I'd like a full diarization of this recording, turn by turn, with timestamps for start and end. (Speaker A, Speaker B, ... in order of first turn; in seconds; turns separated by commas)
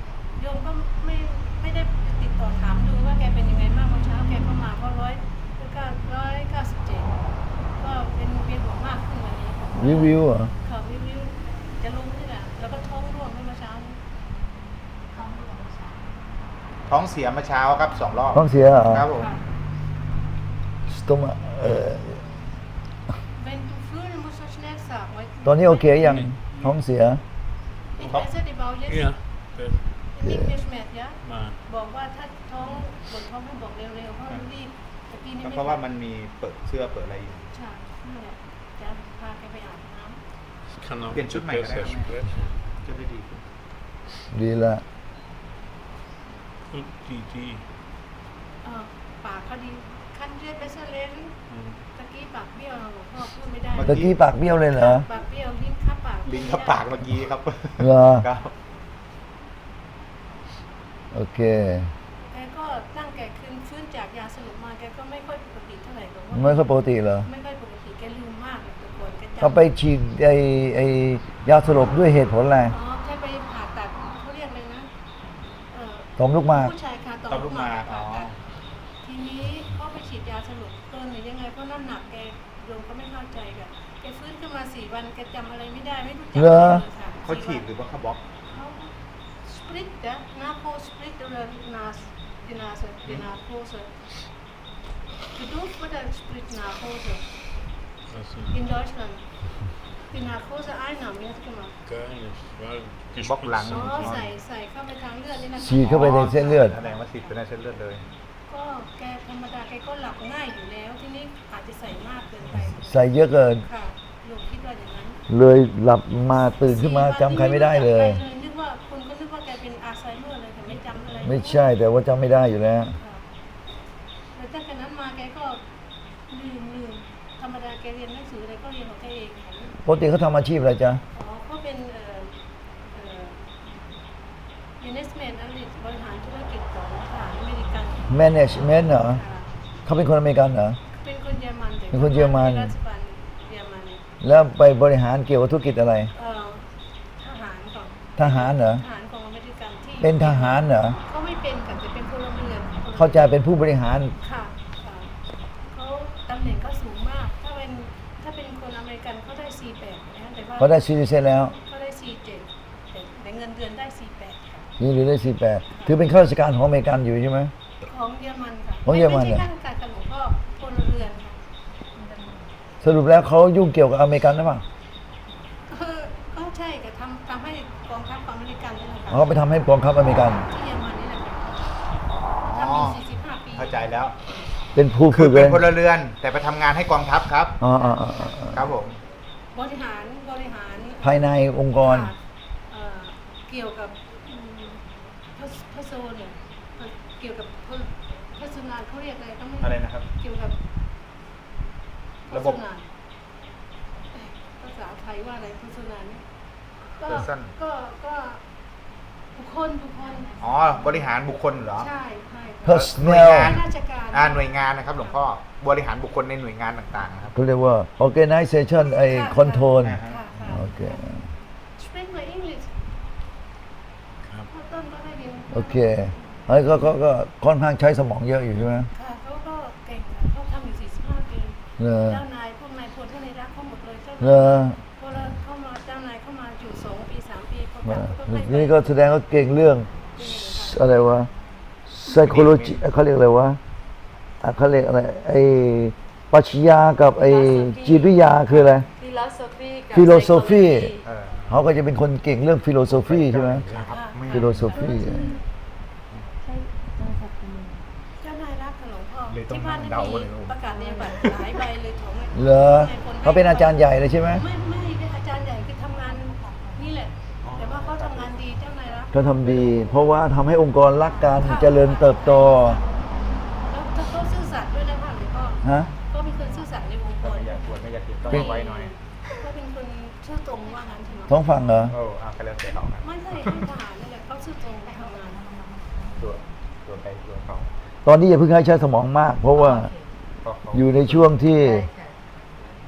Speaker A: 0.3-7.2, Speaker A: 7.8-14.0, Speaker B: 9.7-10.5, Speaker C: 16.9-19.3, Speaker B: 18.3-19.1, Speaker A: 19.1-19.4, Speaker B: 20.9-22.3, Speaker A: 23.3-26.1, Speaker B: 25.4-27.2, Speaker D: 26.0-26.8, Speaker A: 27.9-29.1, Speaker C: 28.0-28.3, Speaker D: 28.9-30.0, Speaker A: 30.1-35.8, Speaker D: 31.2-31.6, Speaker C: 35.4-37.5, Speaker A: 37.5-40.2, Speaker D: 40.6-42.5, Speaker C: 41.1-43.4, Speaker B: 44.3-44.8, Speaker D: 46.7-47.7, Speaker A: 48.6-51.3, Speaker D: 51.5-51.9, Speaker A: 52.0-54.1, Speaker C: 53.7-54.2, Speaker B: 53.8-55.0, Speaker A: 54.8-56.8, Speaker C: 56.2-58.5, Speaker B: 57.8-58.2, Speaker B: 61.1-61.9, Speaker A: 62.2-66.6, Speaker B: 66.3-67.3, Speaker A: 67.2-69.6, Speaker B: 69.4-72.7, Speaker A: 72.7-74.9, Speaker A: 75.7-78.3, Speaker B: 76.2-76.7, Speaker C: 77.3-78.4, Speaker A: 79.0-87.7, Speaker B: 86.3-86.8, Speaker C: 87.2-88.2, Speaker A: 88.5-93.9, Speaker A: 95.3-97.2, Speaker D: 98.1-98.6, Speaker A: 98.5-99.2, Speaker A: 100.1-101.7, Speaker D: 101.8-104.2, Speaker C: 103.2-104.3, Speaker A: 103.7-106.8, Speaker B: 105.5-106.8, Speaker C: 105.8-108.0, Speaker A: 108.5-112.9, Speaker B: 112.8-113.7, Speaker A: 113.6-115.2, Speaker B: 115.3-118.2, Speaker A: 116.6-121.6, Speaker B: 121.2-123.0, Speaker A: 123.0-123.2, Speaker A: 124.3-125.6, Speaker A: 126.3-129.7, Speaker B: 129.8-131.0, Speaker A: 131.1-132.3, Speaker A: 132.9-133.4, Speaker A: 134.8-138.1, Speaker B: 138.1-139.2, Speaker A: 139.0-139.5, Speaker B: 139.8-140.8, Speaker A: 140.9-144.0, Speaker B: 141.9-142.7, Speaker B: 144.2-146.1, Speaker A: 146.1-146.6, Speaker A: 147.2-153.3, Speaker B: 148.2-148.8, Speaker B: 150.0-151.0, Speaker B: 152.9-154.1, Speaker A: 154.2-155.1, Speaker A: 155.7-160.8, Speaker B: 160.6-161.5, Speaker A: 161.6-164.7, Speaker B: 164.8-167.5, Speaker A: 167.8-171.4, Speaker B: 168.8-169.4, Speaker B: 172.8-174.6, Speaker A: 175.7-179.2, Speaker B: 179.1-180.5, Speaker A: 180.4-181.7, Speaker C: 182.4-183.0, Speaker A: 182.5-183.7, Speaker C: 183.5-184.2, Speaker B: 184.7-185.7, Speaker C: 185.1-187.6, Speaker B: 187.6-188.6, Speaker A: 187.7-188.5, Speaker C: 188.4-189.0, Speaker A: 189.5-191.2, Speaker B: 191.0-192.1, Speaker A: 191.8-192.2, Speaker A: 192.7-200.6, Speaker C: 199.6-200.1, Speaker A: 202.3-202.9, Speaker C: 202.3-202.6, Speaker A: 204.2-206.2, Speaker A: 207.0-208.4, Speaker C: 207.0-207.5, Speaker A: 209.3-210.4, Speaker C: 210.4-211.9, Speaker A: 211.8-214.5, Speaker B: 212.6-213.5, Speaker C: 212.7-217.3, Speaker B: 217.3-221.2, Speaker A: 218.8-221.0, Speaker C: 219.8-220.2, Speaker A: 221.8-222.7, Speaker D: 224.2-224.5, Speaker A: 224.5-225.8, Speaker B: 225.5-228.9, Speaker A: 228.9-238.8, Speaker B: 231.8-232.2, Speaker B: 234.2-234.8, Speaker B: 237.8-241.3, Speaker A: 240.2-241.0, Speaker B: 241.9-243.6, Speaker C: 242.1-242.8, Speaker B: 244.4-248.8, Speaker E: 247.2-251.1, Speaker B: 249.9-250.9, Speaker C: 251.0-251.6, Speaker B: 251.5-253.7, Speaker C: 252.9-254.6, Speaker A: 253.7-255.4, Speaker B: 254.3-255.2, Speaker A: 258.2-263.8, Speaker C: 259.3-261.3, Speaker B: 262.3-264.4, Speaker A: 264.4-269.2, Speaker C: 267.4-268.4, Speaker B: 269.1-272.8, Speaker C: 269.5-269.9, Speaker A: 271.4-272.9, Speaker A: 273.6-277.6, Speaker B: 275.6-275.9, Speaker C: 277.2-279.1, Speaker A: 278.3-281.4, Speaker B: 281.3-281.9, Speaker C: 281.9-283.6, Speaker A: 283.0-285.6, Speaker C: 286.2-287.7, Speaker B: 288.0-289.9, Speaker E: 289.6-290.1, Speaker C: 290.4-291.3, Speaker B: 290.7-291.9, Speaker E: 291.5-292.2